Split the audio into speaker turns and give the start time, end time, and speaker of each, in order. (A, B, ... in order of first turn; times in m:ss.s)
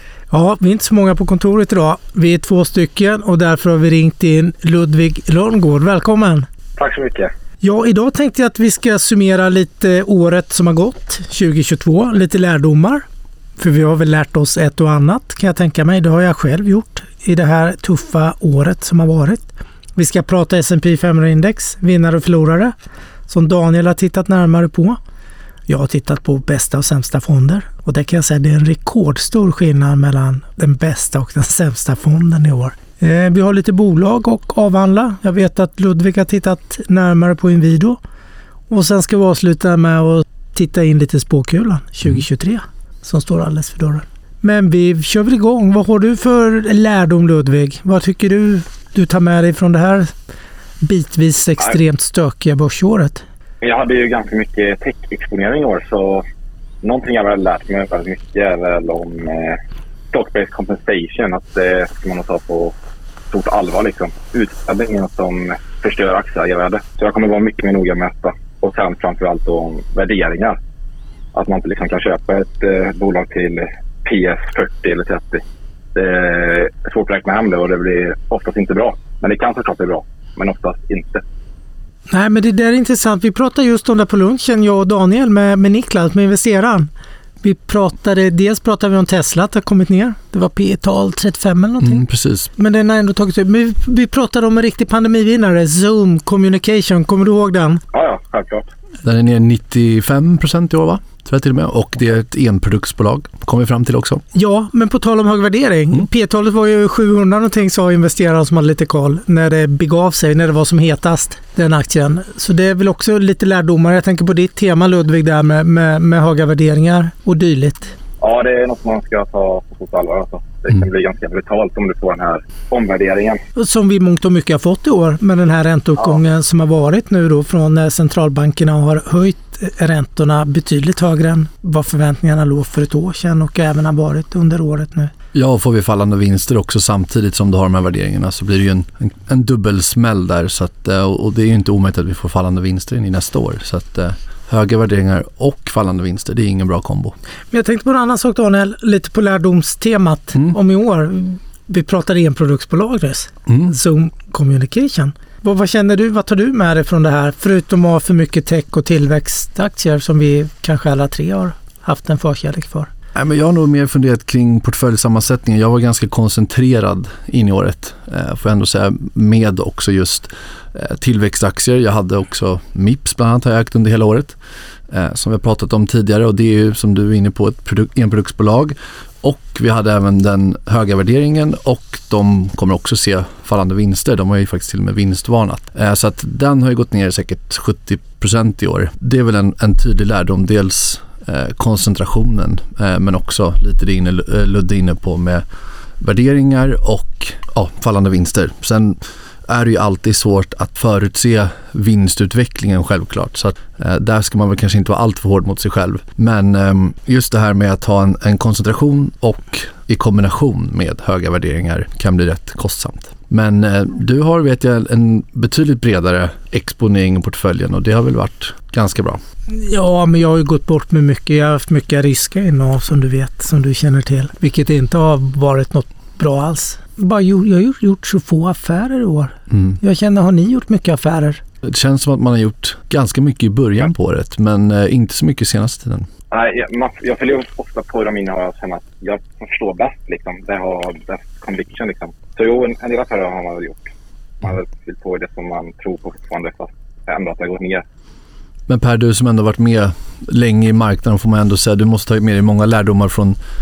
0:00.3-0:06.5 A
0:06.8-0:07.3 B
0:07.6-0:13.0 A
0:13.6-0:22.7 A
0:23.3-0:25.0 A
0:25.7-0:38.0 A
0:38.7-0:50.1 A
0:50.8-0:53.2 A
0:53.6-0:56.2 B
0:56.8-0:59.6 B
1:00.1-1:02.7 B
1:03.3-1:10.6 B
1:11.3-1:15.4 B
1:15.9-1:21.2 B
1:22.1-1:26.9 A
1:27.4-1:37.8 A
1:31.8-1:32.5 C
1:37.9-1:38.7 B
1:39.0-1:44.2 C
1:44.3-1:57.9 A
1:58.2-2:03.4 B
2:03.6-2:15.1 A
2:15.3-2:27.1 C
2:27.5-2:42.9 A
2:43.1-2:54.4 C
2:54.9-3:15.4 C
3:16.0-3:39.2 C
3:39.5-3:51.4 A
3:49.5-3:49.8 C
3:51.6-3:56.1 C
3:56.3-4:07.8 B
4:08.7-4:13.4 C